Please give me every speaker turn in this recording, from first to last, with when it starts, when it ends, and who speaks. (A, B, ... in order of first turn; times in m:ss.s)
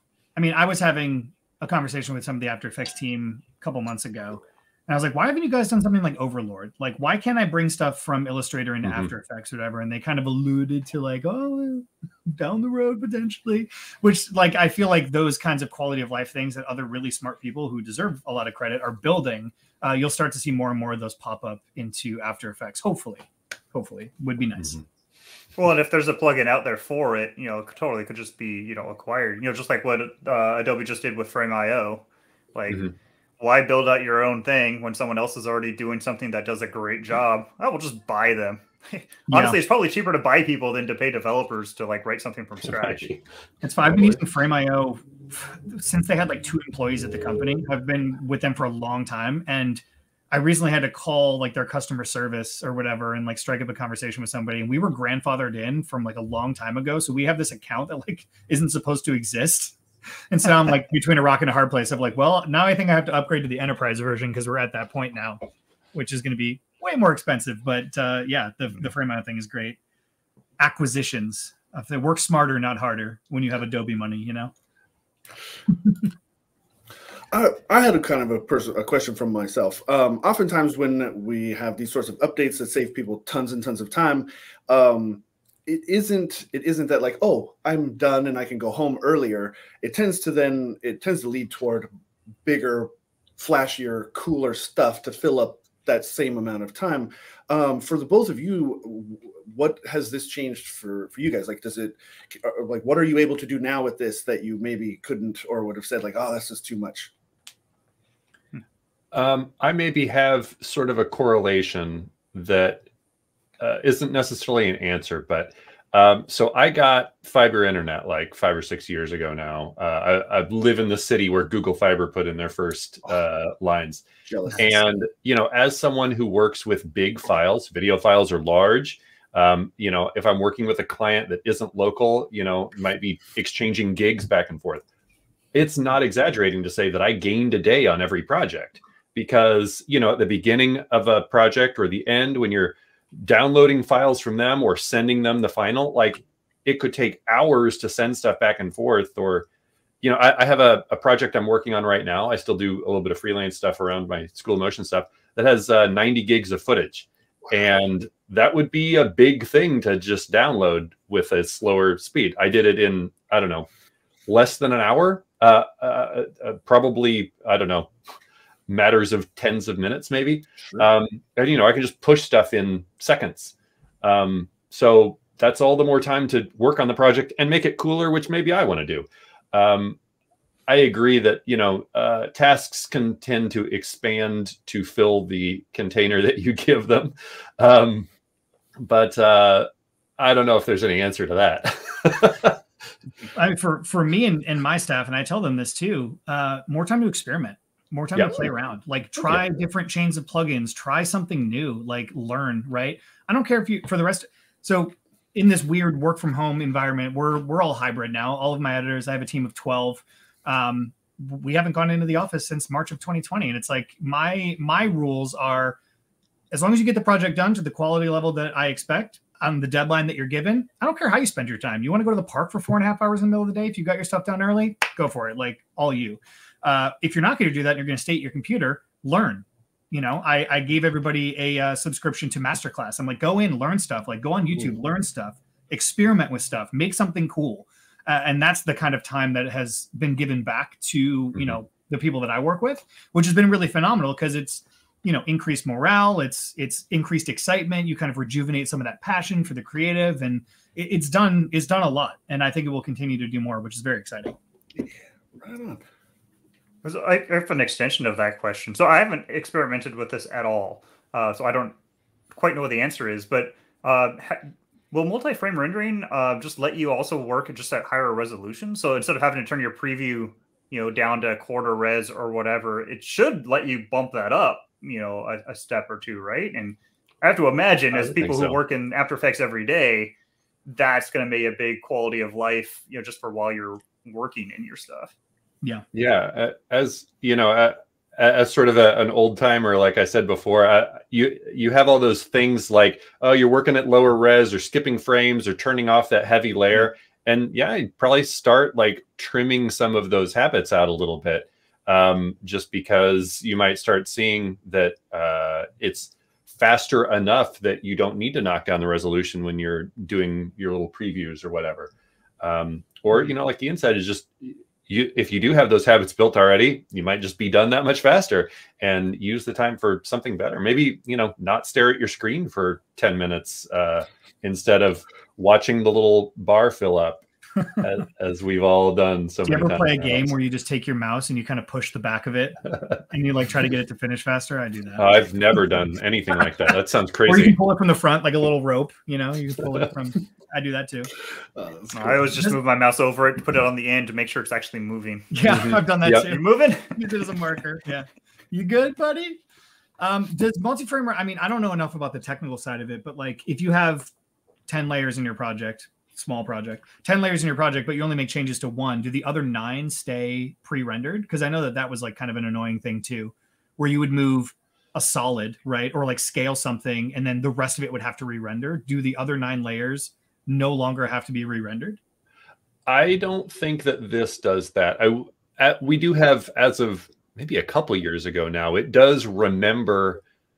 0:00.4-0:24.8 A
0:08.8-0:09.1 B
0:24.6-0:24.8 B
0:25.6-0:32.8 C
0:32.7-0:32.9 B
0:33.4-0:43.1 C
0:39.3-0:39.6 A
0:42.6-0:43.2 B
0:43.6-0:59.8 A
0:43.8-0:44.2 B
1:00.3-1:05.4 A
1:05.9-1:09.8 A
1:10.6-1:14.5 A
1:17.3-1:31.9 D
1:32.4-1:47.1 D
1:49.1-1:52.8 B
1:53.6-2:04.0 B
2:04.2-2:04.8 D
2:04.6-2:14.8 B
2:15.5-2:29.5 B
2:30.0-2:43.7 B
2:44.3-2:47.9 B
2:48.7-3:00.0 B
3:00.7-3:08.1 B
3:08.8-3:12.6 B
3:13.3-3:35.8 A
3:18.2-3:18.5 B
3:36.5-4:14.4 A
4:14.8-4:15.8 D
4:16.8-4:21.8 C
4:22.3-4:40.1 C
4:37.9-4:38.6 B
4:40.7-4:45.1 C
4:45.9-5:27.2 B
5:27.8-5:30.3 B
5:29.5-5:35.2 A
5:35.0-5:37.6 B
5:37.3-5:41.1 A
5:41.6-5:42.3 D
5:41.9-5:47.1 C
5:45.3-5:49.4 A
5:45.4-5:46.3 B
5:50.0-5:54.1 A
5:54.7-6:12.0 A
6:12.9-6:20.2 B